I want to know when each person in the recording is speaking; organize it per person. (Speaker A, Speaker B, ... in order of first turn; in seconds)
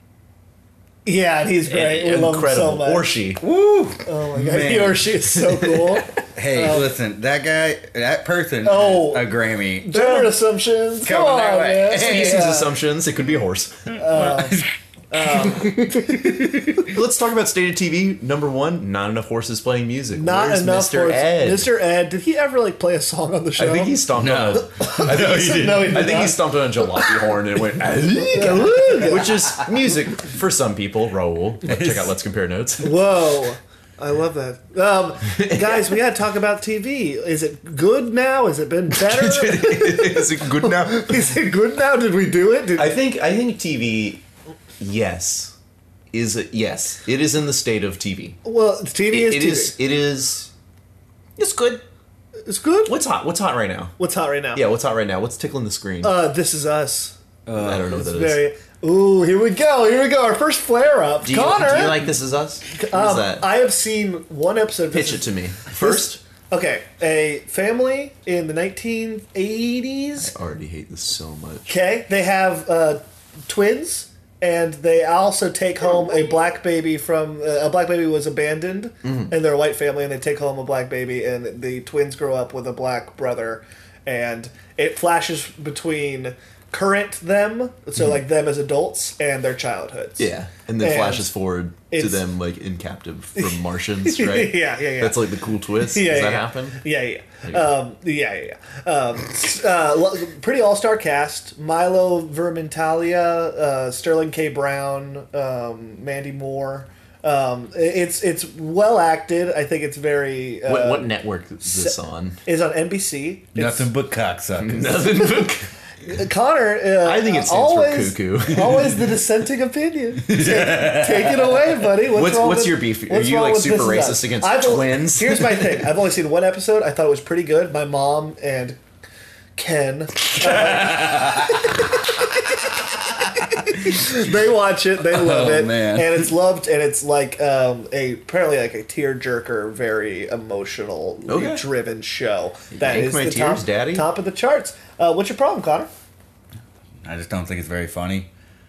Speaker A: 1.1-3.1, 4.0-6.9, 8.6-9.3, 9.8-12.7, 13.9-16.5, 20.1-24.0, 24.6-26.4, 28.2-29.5, 32.8-42.9, 48.4-49.7, 52.5-52.9, 54.0-54.6, 56.0-57.2, 57.8-62.1, 62.7-70.3, 71.7-91.3, 91.9-92.2, 93.3-95.2, 95.8-111.1, 111.6-113.9, 116.0-128.8, 129.6-145.9
Speaker B: 1.7-3.4, 5.3-6.1, 11.9-13.9, 16.8-21.7, 23.6-33.0, 35.3-36.0, 38.9-41.4, 42.8-44.2, 44.8-45.5, 46.1-48.4, 49.1-50.5, 51.4-51.8, 52.9-54.0, 54.5-56.1, 57.5-58.4, 61.2-63.4, 64.9-66.2, 70.2-71.7, 79.0-79.3, 90.2-96.8, 110.7-112.4, 114.6-115.7, 117.0-119.0, 122.0-125.8, 141.3-141.6, 142.7-144.1
Speaker C: 3.4-5.1, 6.3-10.3, 11.0-12.5, 14.1-14.7, 15.4-16.9, 24.1-24.7, 31.7-32.0, 57.5-57.9, 113.5-115.0, 120.2-121.3, 130.4-131.8, 133.2-134.0, 135.0-136.2, 147.0-148.3